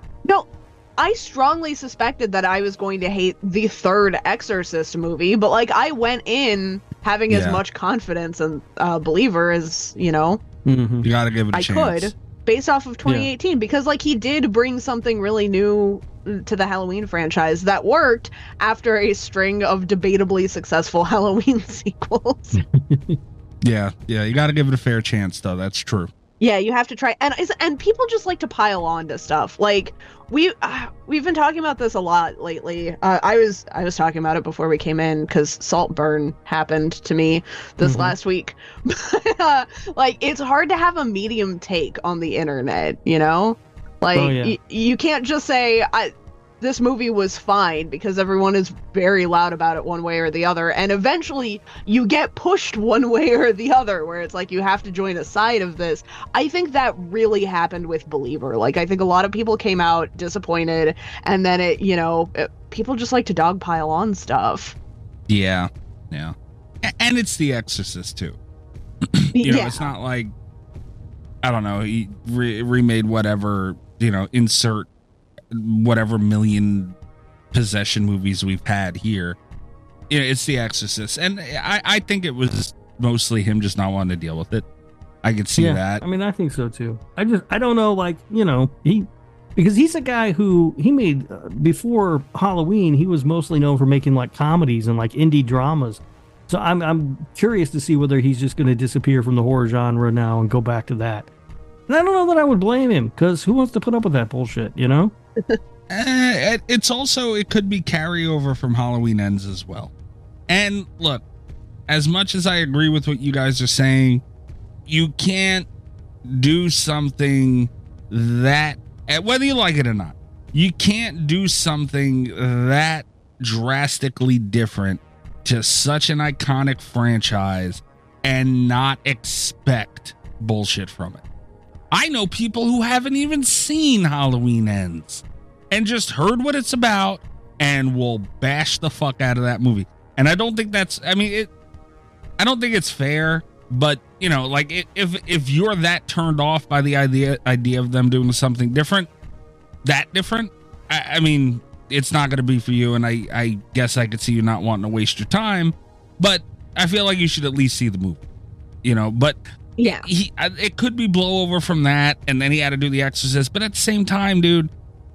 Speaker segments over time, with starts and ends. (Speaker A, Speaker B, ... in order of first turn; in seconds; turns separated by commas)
Speaker A: 0.3-10.4, Speaker B: 7.3-7.6, Speaker C: 10.7-11.1, Speaker B: 11.0-12.1, Speaker A: 11.5-22.6, Speaker C: 13.1-13.3, Speaker C: 22.6-23.2, Speaker B: 23.6-26.1, Speaker A: 26.4-64.8, Speaker C: 37.8-38.1, Speaker C: 44.1-44.6, Speaker B: 65.3-68.4, Speaker B: 69.2-70.3, Speaker A: 69.4-69.9, Speaker B: 71.4-74.9, Speaker B: 75.5-77.0, Speaker B: 77.5-79.4, Speaker B: 80.1-84.7, Speaker B: 85.2-86.0, Speaker C: 85.6-101.3, Speaker C: 101.9-105.1, Speaker B: 105.9-109.9, Speaker B: 110.5-111.2, Speaker B: 111.9-114.2, Speaker B: 114.9-115.7, Speaker B: 116.3-131.2, Speaker B: 131.9-141.5, Speaker B: 142.4-149.1, Speaker B: 149.8-158.2, Speaker B: 158.8-164.7, Speaker A: 159.8-160.1